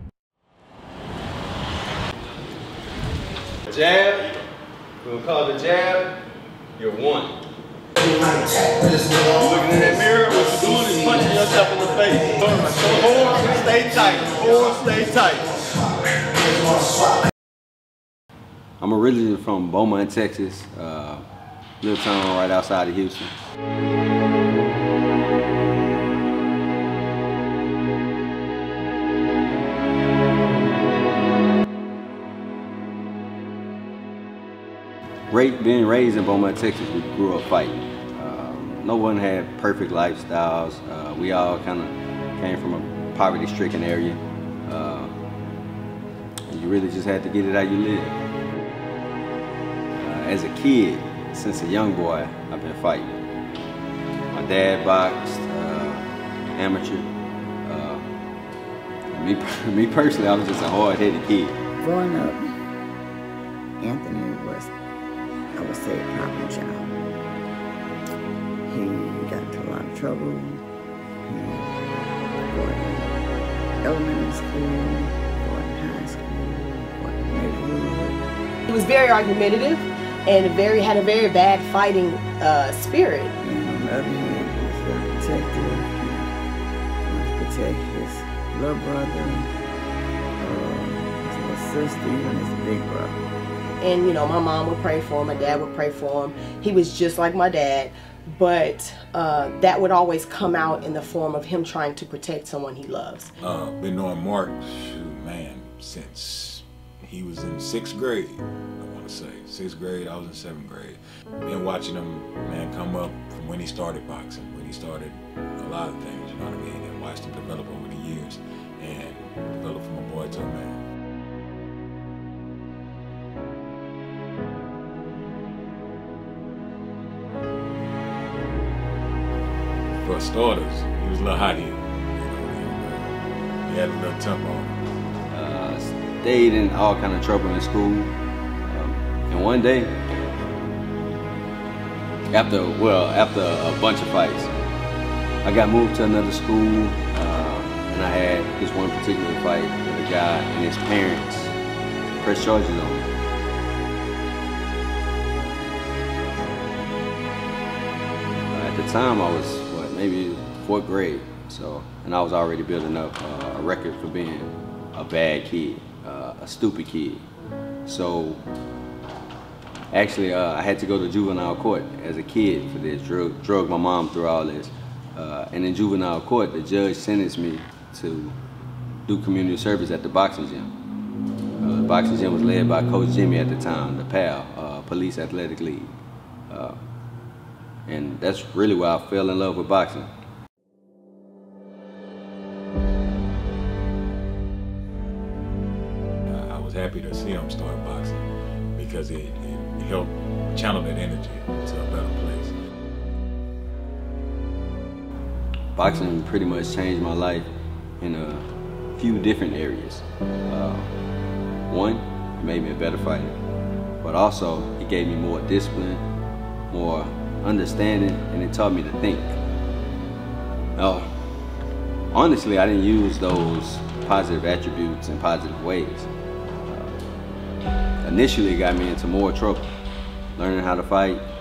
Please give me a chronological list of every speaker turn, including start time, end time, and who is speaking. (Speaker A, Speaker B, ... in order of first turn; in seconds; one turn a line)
Speaker A: 3.7-4.4
Speaker A: 5.0-6.2
Speaker A: 6.8-7.4
Speaker A: 8.8-15.7
Speaker A: 18.8-21.3
Speaker A: 21.8-23.3
Speaker A: 35.3-45.1
Speaker A: 46.5-48.2
Speaker A: 50.0-53.2
Speaker A: 54.3-57.1
Speaker A: 57.6-58.0
Speaker A: 59.1-61.6
Speaker B: 61.8-62.5
Speaker B: 63.8-64.7
Speaker B: 65.5-66.9
Speaker B: 68.7-70.6
Speaker B: 71.2-71.8
Speaker B: 72.5-73.3
Speaker B: 73.8-78.2
Speaker C: 78.7-83.3
Speaker B: 83.4-86.3
Speaker B: 87.0-89.5
Speaker B: 90.4-93.2
Speaker C: 93.8-103.3
Speaker D: 103.4-120.8
Speaker D: 130.0-133.1
Speaker D: 133.7-134.8
Speaker A: 135.3-138.1
Speaker A: 138.7-140.0
Speaker A: 142.3-144.5
Speaker A: 145.4-151.6
Speaker A: 152.2-153.1
Speaker A: 158.5-167.3
Speaker A: 167.9-168.4
Speaker A: 169.9-178.4
Speaker A: 179.1-180.7
Speaker A: 181.6-186.0
Speaker A: 186.5-186.8
Speaker A: 187.9-190.1
Speaker D: 196.3-198.2
Speaker D: 198.8-202.5
Speaker A: 205.8-207.5
Speaker A: 208.0-210.9
Speaker A: 211.7-213.3
Speaker A: 214.0-216.0
Speaker A: 216.7-219.4
Speaker A: 220.8-221.1
Speaker A: 222.1-226.1
Speaker A: 226.7-227.0
Speaker A: 228.0-229.7
Speaker A: 230.4-231.2